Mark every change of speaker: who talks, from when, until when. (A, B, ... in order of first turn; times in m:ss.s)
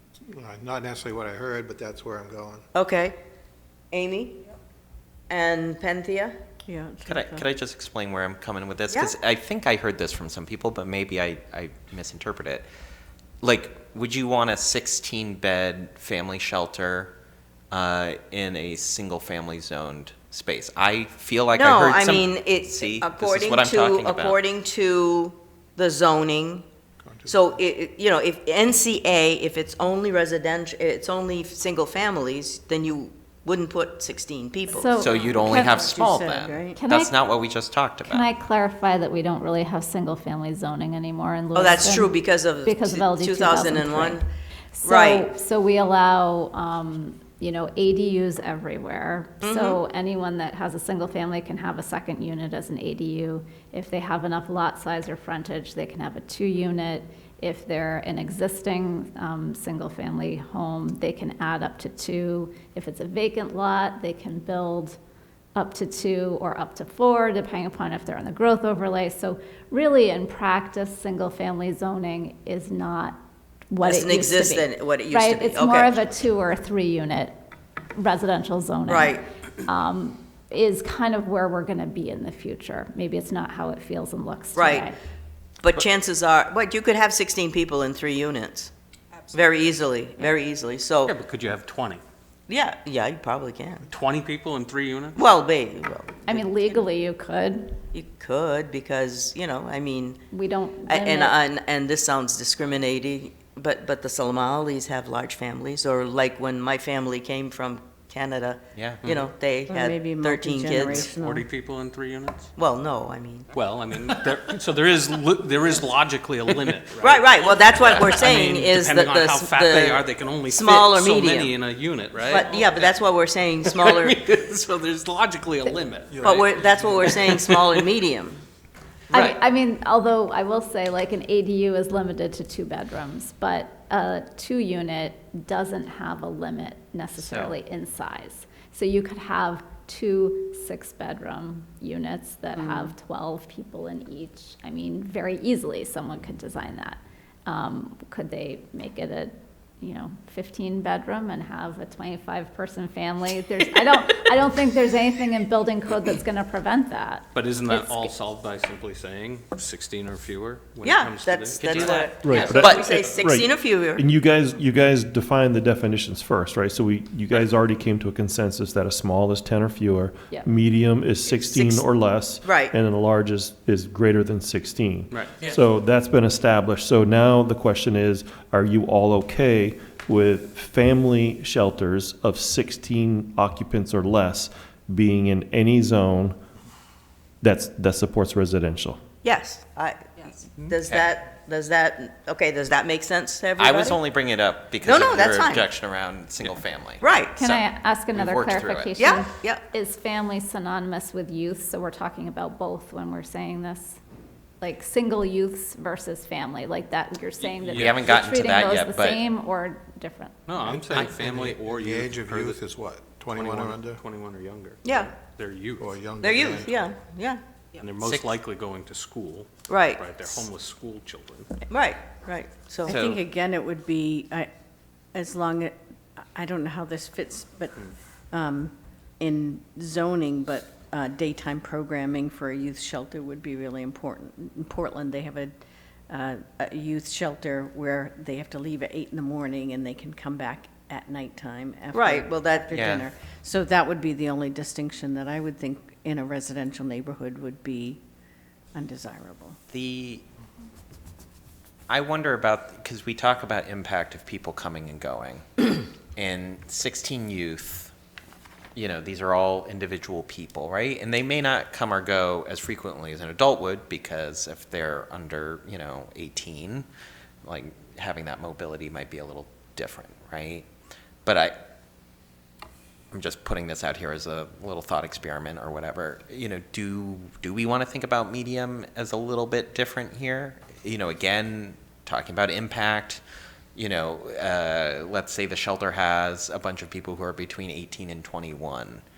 0:00.3-0:02.6 A
0:02.7-0:03.2 B
0:03.9-0:04.4 B
0:05.3-0:06.3 B
0:06.6-0:07.5 C
0:07.0-0:12.7 D
0:13.4-0:17.1 D
0:17.7-0:24.4 D
0:21.5-0:26.6 B
0:27.0-0:27.6 A
0:27.2-0:35.0 B
0:34.7-0:35.8 E
0:35.0-0:38.3 D
0:35.3-0:36.8 C
0:36.7-0:37.1 E
0:38.0-1:05.0 E
0:41.5-0:44.3 B
0:44.8-0:45.3 B
0:49.4-0:49.8 B
1:05.5-1:13.2 E
1:13.7-1:17.3 E
1:13.8-1:16.1 B
1:18.0-1:24.9 E
1:18.8-1:19.3 B
1:24.5-1:24.9 B
1:25.6-1:28.7 B
1:29.3-1:31.1 B
1:31.1-1:32.0 F
1:32.5-1:33.8 B
1:33.9-1:35.2 F
1:35.2-1:36.8 B
1:36.2-1:37.8 E
1:37.9-1:40.2 B
1:40.3-1:41.4 E
1:40.9-1:51.1 B
1:48.7-1:49.0 D
1:49.0-1:49.3 F
1:49.7-1:51.4 C
1:50.8-1:52.5 F
1:52.6-1:53.5 B
1:53.5-2:03.0 F
1:57.0-2:01.5 B
2:02.3-2:04.2 B
2:03.6-2:07.7 F
2:06.1-2:07.0 A
2:06.2-2:08.4 B
2:09.1-2:38.1 E
2:17.1-2:17.5 D
2:22.5-2:22.9 C
2:37.3-2:42.1 F
2:40.8-2:44.0 B
2:41.6-2:42.9 D
2:42.2-3:06.4 G
2:51.2-2:51.8 B
2:52.4-2:52.7 B
2:55.1-2:55.4 F
3:07.4-3:09.0 G
3:09.2-3:14.0 B
3:13.6-3:19.0 D
3:14.8-3:15.7 B
3:17.0-3:17.4 B
3:17.4-3:24.0 E
3:19.0-3:19.6 B
3:24.6-3:30.8 E
3:27.4-3:28.1 F
3:27.6-3:29.2 D
3:30.5-3:32.6 F
3:30.9-3:34.0 A
3:33.3-3:36.0 F
3:34.8-3:35.1 B
3:35.8-3:36.7 A
3:36.2-3:37.4 B
3:37.8-3:41.5 F
3:38.0-3:38.4 D
3:39.7-3:40.0 B
3:41.7-3:43.0 B
3:42.9-3:43.2 D
3:42.9-3:44.5 C
3:45.1-3:45.8 C
3:46.3-3:55.5 C
3:56.1-4:08.0 C
4:01.9-4:02.8 B
4:02.7-4:03.1 D
4:08.7-4:09.6 C
4:09.7-4:10.2 D
4:11.9-4:17.9 D
4:18.7-4:26.8 D
4:27.4-4:30.7 D
4:31.2-4:31.6 D
4:33.1-4:43.2 D
4:43.7-4:49.0 D